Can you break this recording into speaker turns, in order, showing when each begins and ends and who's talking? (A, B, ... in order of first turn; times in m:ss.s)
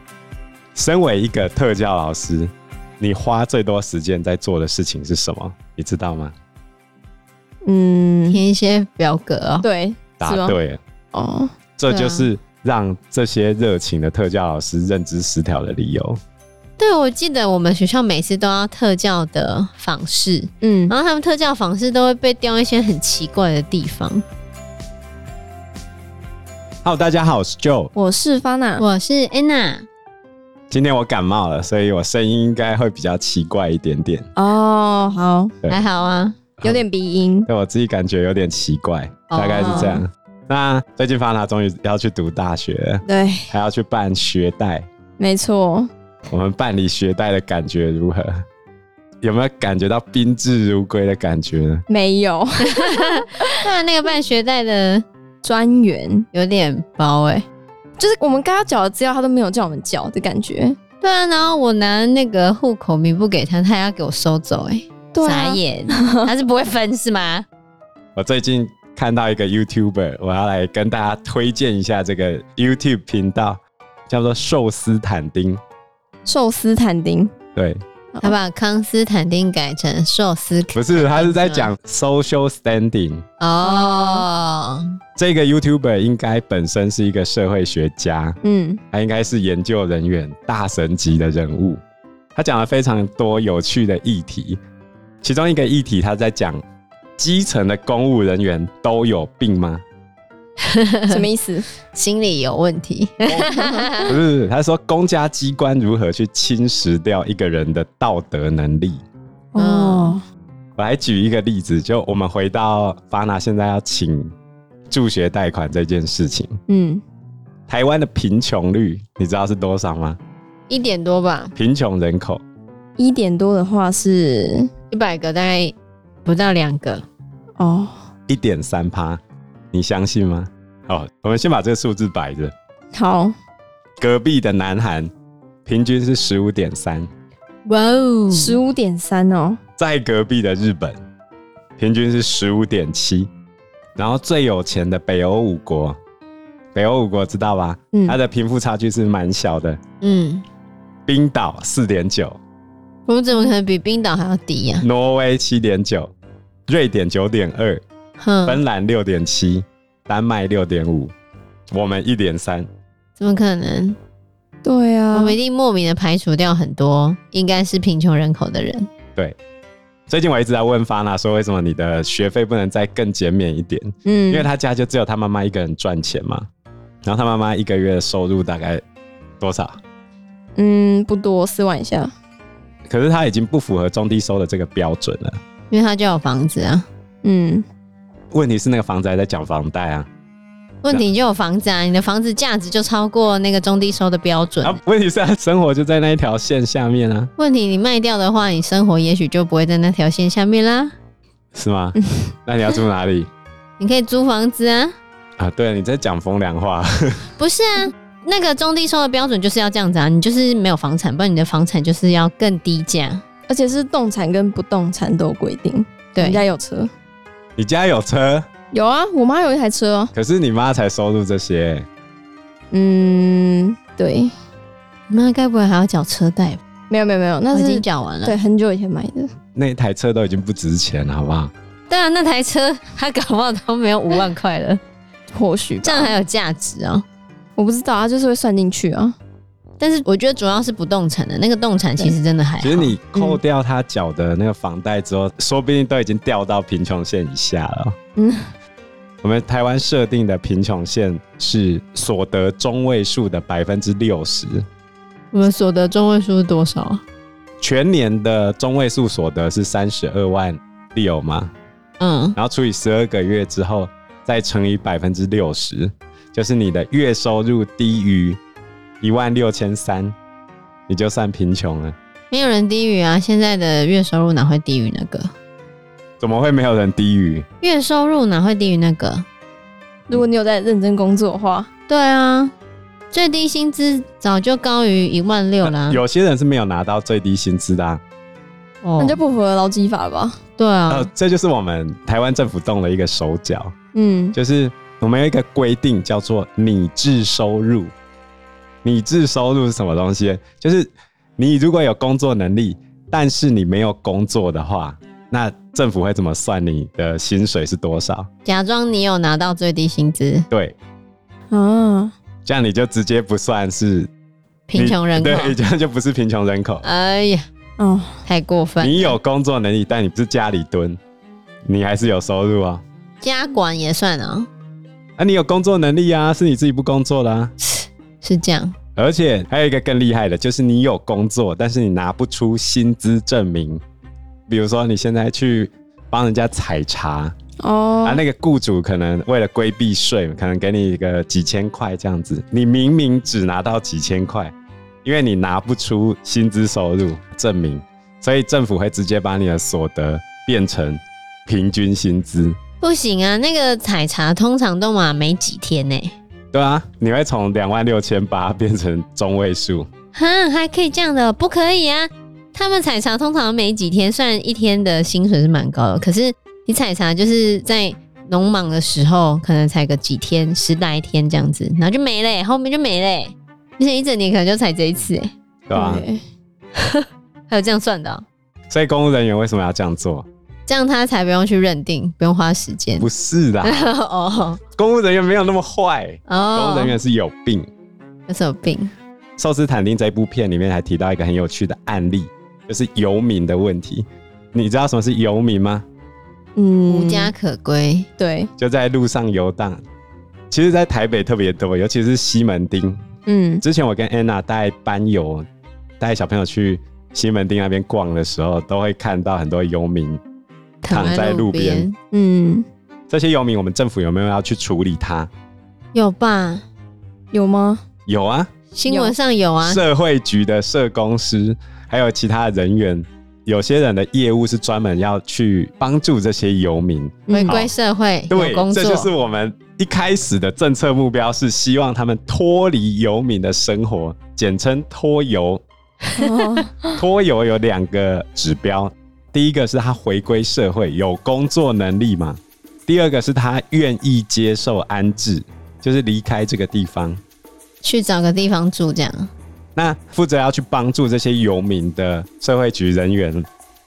0:00.8-0:06.3 A
0:07.6-0:08.4 B
0:08.3-0:09.7 C
0:09.6-0:10.6 B
0:10.2-0:10.8 A
0:11.1-0:11.5 B
0:11.8-0:16.2 A
0:11.9-0:12.3 C
0:16.8-0:24.2 C
0:20.6-0:21.0 B
0:26.8-0:27.9 A
0:27.9-0:28.9 B
0:28.8-0:29.9 C
0:30.7-0:34.3 A
0:34.4-0:35.5 B
0:35.7-0:36.4 C
0:36.6-0:37.5 B
0:37.5-0:44.9 A
0:39.3-0:40.0 C
0:39.6-0:40.0 B
0:43.1-0:43.5 B
0:45.2-0:45.9 B
0:46.3-0:48.4 A
0:49.2-0:51.8 A
0:51.9-0:53.0 B
0:52.7-0:55.0 C
0:55.4-0:56.2 B
0:56.3-0:57.5 C
0:58.0-1:00.8 B
1:01.0-1:07.5 C
1:05.1-1:06.2 B
1:08.2-1:15.6 A
1:16.3-1:17.3 B
1:17.6-1:17.8 A
1:18.2-1:21.7 C
1:20.7-1:23.2 A
1:23.4-1:24.9 C
1:23.6-1:24.3 B
1:25.2-1:28.4 A
1:28.4-1:28.8 B
1:28.9-1:31.8 A
1:32.4-1:34.6 A
1:35.2-1:36.6 A
1:37.2-1:39.8 A
1:40.7-1:41.2 C
1:41.1-1:41.7 B
1:41.9-1:44.1 C
1:43.6-1:43.9 B
1:44.0-1:49.0 A
1:49.5-1:50.2 B
1:49.6-1:50.2 C
1:50.8-1:54.3 A
1:54.9-1:56.6 A
1:56.7-1:57.0 B
1:57.7-2:00.2 A
2:00.7-2:01.5 C
2:01.6-2:02.4 A
2:03.0-2:04.7 B
2:04.9-2:05.7 C
2:06.2-2:07.0 C
2:07.6-2:08.0 B
2:08.3-2:09.2 A
2:09.7-2:12.5 A
2:12.9-2:13.3 B
2:14.0-2:15.1 A
2:15.6-2:17.1 A
2:17.7-2:18.6 C
2:18.3-2:19.6 B
2:19.8-2:21.0 A
2:21.8-2:23.3 A
2:24.0-2:26.0 A
2:26.7-2:29.8 A
2:30.0-2:30.4 C
2:31.1-2:32.4 A
2:33.1-2:34.9 C
2:34.8-2:36.1 A
2:36.7-2:37.8 A
2:38.2-2:38.6 C
2:38.5-2:41.1 A
2:41.7-2:42.7 A
2:43.2-2:44.0 C
2:44.6-2:45.4 B
2:45.1-2:48.9 C
2:50.1-2:56.5 A
2:54.1-2:54.5 B
2:57.0-2:58.8 A
2:59.4-2:59.8 A
3:00.6-3:02.1 B
3:02.9-3:05.4 A
3:05.7-3:06.9 C
3:07.2-3:07.6 B
3:08.3-3:10.1 A
3:10.8-3:14.8 C
3:14.6-3:17.3 A
3:17.4-3:20.9 C
3:21.5-3:23.3 A
3:23.8-3:24.9 C
3:25.4-3:27.2 A
3:27.4-3:33.2 C
3:33.5-3:36.9 B
3:36.2-3:36.4 C
3:37.6-3:38.5 A
3:38.7-3:40.1 B
3:40.1-3:41.9 A
3:42.7-3:44.3 B
3:45.1-3:46.6 C
3:46.9-3:49.3 B
3:47.5-3:48.4 C
3:49.6-3:51.5 A
3:51.9-3:54.8 C
3:55.3-3:56.2 B
3:55.8-3:57.0 C
3:57.6-3:59.2 B
3:59.8-4:03.0 C
4:02.6-4:08.0 A
4:03.1-4:03.4 B
4:09.2-4:14.7 A
4:15.3-4:17.0 C
4:17.6-4:21.5 A
4:22.0-4:22.4 C
4:22.4-4:28.4 A
4:29.0-4:30.2 A
4:30.9-4:32.0 A
4:32.3-4:35.3 C
4:36.2-4:37.5 A
4:37.6-4:39.2 C
4:40.1-4:41.7 B
4:41.9-4:42.5 C
4:43.1-4:46.0 C
4:45.6-4:48.0 A
4:48.8-4:49.2 C
4:49.0-4:50.4 B
4:50.6-4:51.1 C
4:50.9-4:53.7 A
4:53.9-4:54.4 B
4:54.3-4:57.9 A
4:58.8-5:08.3 A
5:08.4-5:10.5 C
5:10.5-5:10.8 A
5:11.5-5:12.1 B
5:12.5-5:14.1 A
5:14.7-5:15.6 C
5:14.8-5:16.9 A
5:16.8-5:17.5 C
5:17.8-5:18.1 B
5:18.3-5:19.2 C
5:18.8-5:21.0 A
5:21.6-5:22.8 A
5:23.2-5:24.5 C
5:25.2-5:27.5 A
5:27.6-5:28.8 C
5:29.0-5:33.8 A
5:34.5-5:37.3 A
5:37.6-5:38.2 B
5:38.0-5:44.5 A
5:45.0-5:52.6 A
5:52.8-5:56.2 C
5:56.5-5:59.9 A
6:00.1-6:15.3 C
6:15.7-6:16.1 A
6:15.7-6:16.2 B
6:16.8-6:18.2 C
6:18.7-6:20.3 A
6:20.7-6:23.1 C
6:23.0-6:23.9 A
6:23.6-6:24.6 C
6:24.8-6:27.7 A
6:26.3-6:27.0 C
6:28.3-6:28.9 C
6:29.4-6:35.8 A
6:36.6-6:37.3 B
6:36.9-6:38.1 C
6:38.2-6:38.5 B
6:38.6-6:39.8 A
6:40.5-6:43.0 A
6:43.3-6:43.6 B
6:43.6-6:45.5 A
6:46.0-6:50.2 A
6:50.8-6:52.0 C
6:50.9-6:51.9 A
6:52.1-6:52.6 B
6:53.1-6:55.3 A
6:55.9-6:56.6 C
6:57.3-6:57.8 B
6:58.1-6:58.5 A
6:58.7-6:59.8 C
6:58.9-6:59.2 B
6:59.6-7:07.7 A
7:07.3-7:07.7 B
7:07.3-7:09.1 C
7:08.3-7:15.6 A
7:16.2-7:17.0 B
7:17.0-7:27.2 A
7:27.8-7:29.3 C
7:29.8-7:33.5 A